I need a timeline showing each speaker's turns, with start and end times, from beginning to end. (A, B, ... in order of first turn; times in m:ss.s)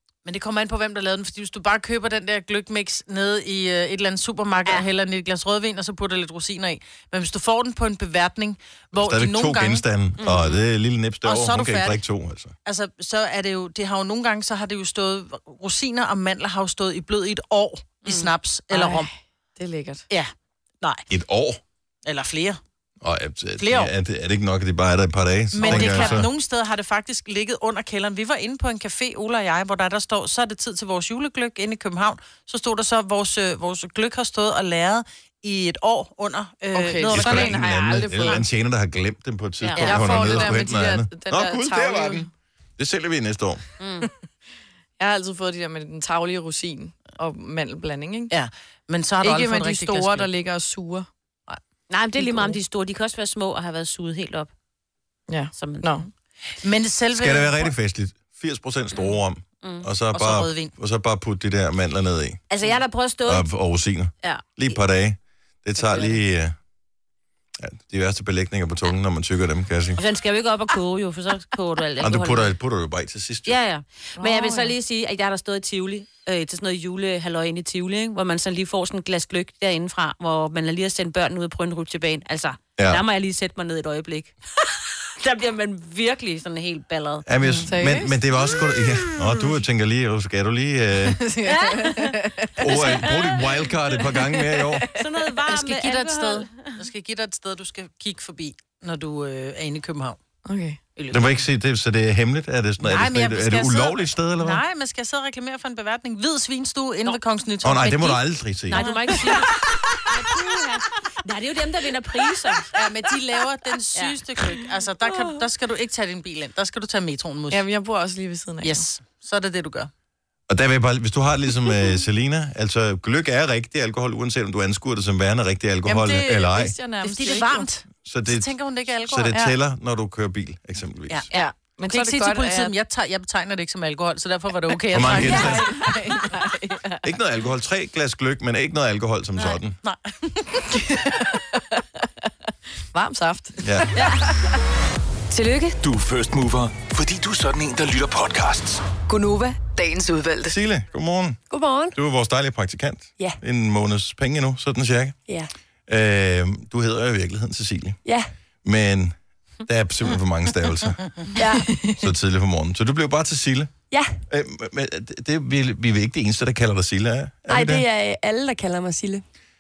0:00.2-0:09.8 A
0:08.9-0:12.5 B
0:10.2-0:10.6 C
0:11.2-0:12.0 A
0:12.6-0:19.1 A
0:18.0-0:18.3 C
0:18.7-0:20.0 D
0:21.1-0:21.6 B
0:22.1-0:22.6 A
0:23.0-0:26.3 B
0:23.6-0:23.9 A
0:25.5-0:38.4 A
0:36.7-0:38.5 D
0:37.1-0:43.6 B
0:39.6-0:40.0 C
0:39.8-0:40.6 A
0:39.8-0:42.3 D
0:43.8-0:44.1 C
0:45.0-0:48.3 D
0:48.3-0:50.3 A
0:49.2-0:51.1 D
0:51.9-0:54.5 C
0:52.2-0:52.6 D
0:55.3-0:56.1 D
0:55.6-0:56.0 C
0:56.6-0:57.7 A
0:57.2-1:02.4 B
0:59.0-0:59.9 C
1:00.1-1:00.7 A
1:02.5-1:03.5 C
1:03.3-1:06.6 B
1:04.2-1:04.7 C
1:05.8-1:06.2 C
1:07.6-1:10.0 B
1:10.0-1:12.5 C
1:12.0-1:13.6 B
1:13.5-1:27.7 C
1:14.2-1:14.7 D
1:22.8-1:23.0 B
1:27.3-1:31.2 B
1:27.6-1:28.2 D
1:31.2-1:33.1 D
1:31.4-1:34.2 C
1:32.6-1:34.9 B
1:34.4-1:35.1 D
1:34.9-1:36.8 C
1:35.4-1:40.2 A
1:40.4-1:40.8 D
1:41.0-1:41.4 A
1:41.1-1:44.6 B
1:42.8-1:49.4 A
1:47.6-1:49.4 B
1:48.7-1:52.7 C
1:52.7-1:57.6 A
1:53.9-1:54.2 C
1:57.5-1:58.8 D
1:58.6-1:59.9 A
2:00.5-2:06.8 B
2:05.9-2:07.7 D
2:07.0-2:09.6 A
2:08.0-2:08.5 B
2:09.1-2:11.3 B
2:11.1-2:16.2 A
2:11.3-2:12.7 D
2:14.9-2:16.0 B
2:15.0-2:17.1 D
2:17.0-2:19.8 B
2:19.4-2:20.9 A
2:20.7-2:22.3 D
2:22.9-2:24.6 D
2:23.6-2:24.0 B
2:25.3-2:25.8 E
2:25.8-2:28.8 F
2:29.1-2:30.6 E
2:30.5-2:31.4 B
2:31.5-2:32.0 G
2:31.9-2:35.2 B
2:35.9-2:38.0 B
2:38.0-2:38.3 G
2:38.6-2:39.2 B
2:39.7-2:41.2 B
2:41.4-2:41.8 G
2:41.7-2:42.0 D
2:42.0-2:43.7 B
2:44.3-2:47.8 B
2:47.5-2:49.2 G